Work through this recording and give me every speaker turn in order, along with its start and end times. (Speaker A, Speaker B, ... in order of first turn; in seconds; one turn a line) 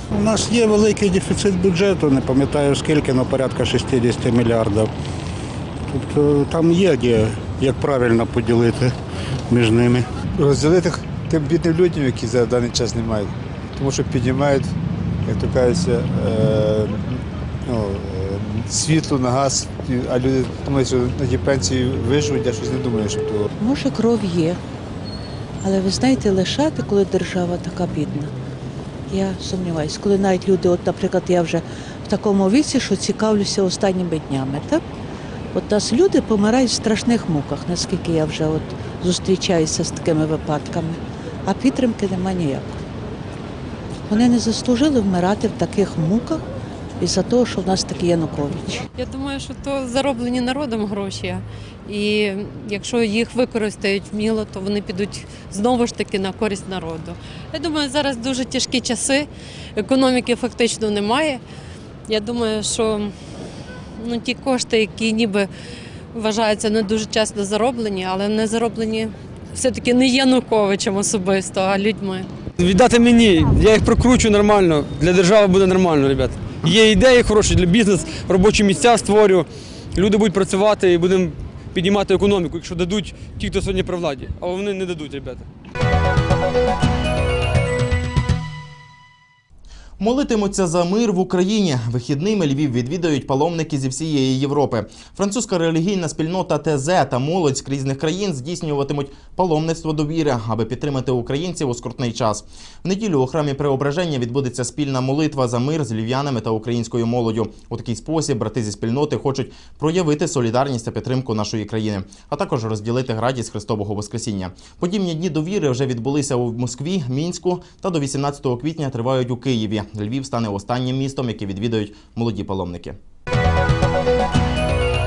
Speaker A: 0.1-4.9
Speaker A: 5.9-8.8
Speaker A: 9.5-10.0
Speaker B: 10.4-14.7
Speaker B: 15.2-23.5
Speaker C: 23.6-24.6
Speaker C: 25.6-28.3
Speaker C: 29.1-34.8
Speaker C: 35.5-42.8
Speaker C: 44.1-46.4
Speaker C: 47.0-48.8
Speaker D: 49.0-61.4
Speaker D: 62.1-63.1
Speaker D: 64.0-65.5
Speaker D: 66.1-72.3
Speaker E: 72.6-79.4
Speaker E: 80.0-85.4
Speaker F: 90.0-123.0